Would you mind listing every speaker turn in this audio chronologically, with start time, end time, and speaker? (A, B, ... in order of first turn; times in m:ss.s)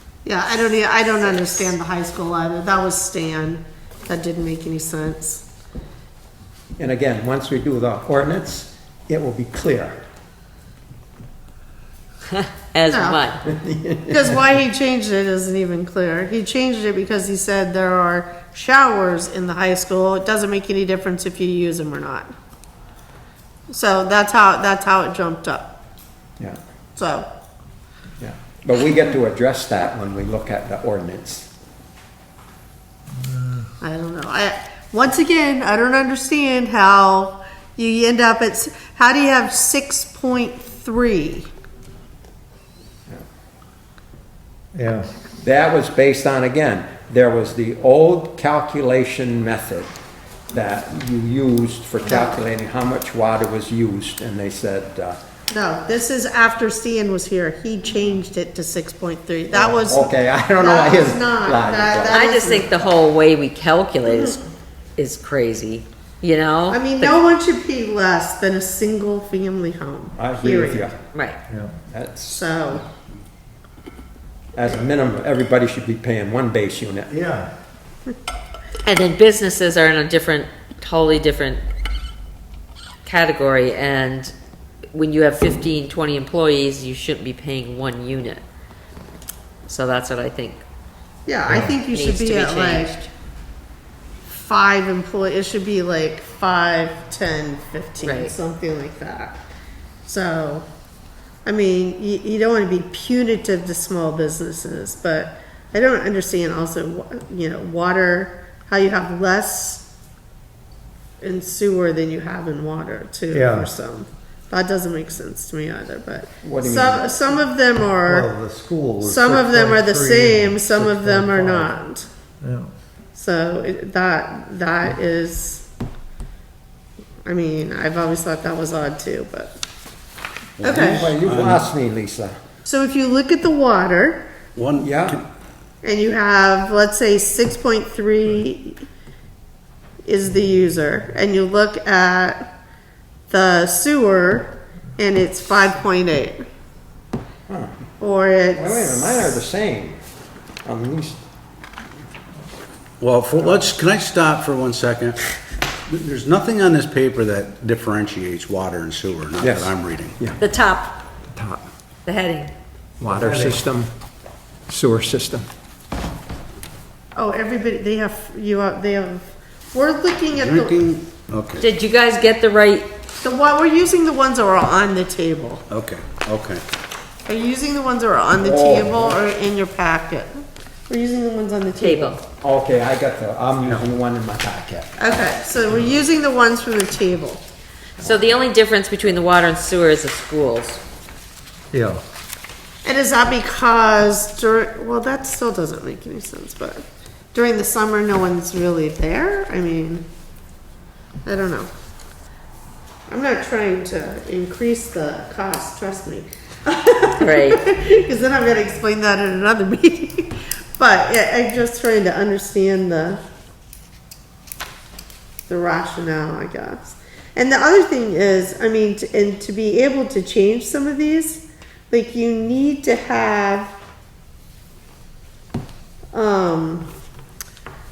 0:00.2-0:05.5 A
0:06.8-0:10.0 B
0:12.3-0:13.4 C
0:12.9-0:13.3 A
0:13.6-0:14.4 B
0:14.1-0:22.3 A
0:23.7-0:25.8 A
0:27.0-0:27.3 A
0:28.2-0:31.5 B
0:33.8-0:41.5 A
0:44.8-0:45.1 D
0:45.4-0:49.9 B
0:50.5-0:55.2 B
0:52.0-0:52.4 A
0:55.5-1:02.9 A
0:59.5-1:02.2 B
1:02.1-1:04.4 C
1:04.0-1:04.4 A
1:05.0-1:07.2 C
1:06.7-1:10.9 A
1:10.2-1:11.0 B
1:11.5-1:11.7 D
1:11.9-1:12.4 B
1:12.3-1:12.8 A
1:14.6-1:17.1 B
1:17.1-1:17.5 D
1:18.8-1:21.6 C
1:23.0-1:24.3 C
1:24.9-1:28.4 C
1:29.7-1:30.6 C
1:31.3-1:33.0 A
1:31.5-1:33.1 C
1:34.3-1:39.4 A
1:38.0-1:38.3 C
1:40.1-1:40.7 A
1:41.4-1:49.9 A
1:51.2-1:58.3 A
1:53.3-1:53.7 D
1:56.4-1:57.4 B
1:58.0-2:01.8 D
1:59.0-2:02.1 A
2:02.4-2:02.7 D
2:03.1-2:05.7 A
2:07.2-2:09.6 A
2:10.6-2:11.6 E
2:10.6-2:12.4 B
2:10.6-2:11.1 A
2:12.6-2:14.3 A
2:14.6-2:15.2 E
2:14.8-2:15.2 B
2:15.8-2:18.8 A
2:20.0-2:22.4 A
2:23.3-2:26.4 A
2:27.5-2:27.7 B
2:28.0-2:29.4 A
2:28.6-2:30.0 B
2:30.6-2:31.2 B
2:33.0-2:35.2 E
2:35.9-2:40.2 E
2:39.4-2:40.4 B
2:40.4-2:41.0 C
2:41.4-2:41.6 B
2:42.1-2:42.5 C
2:43.0-2:43.9 B
2:43.1-2:43.6 D
2:44.7-2:45.5 B
2:47.2-2:50.8 A
2:50.3-2:51.7 E
2:51.6-2:52.9 C
2:53.2-2:55.6 A
2:55.7-2:56.6 E
2:57.3-3:02.2 A
2:58.4-2:59.2 B
3:01.8-3:02.2 C
3:02.4-3:04.9 B
3:05.0-3:07.4 A
3:08.0-3:10.8 C
3:11.7-3:12.0 D
3:12.8-3:20.1 A
3:21.2-3:21.7 A
3:23.1-3:33.2 A
3:27.1-3:27.6 C
3:35.5-3:43.8 A
3:46.1-3:46.9 A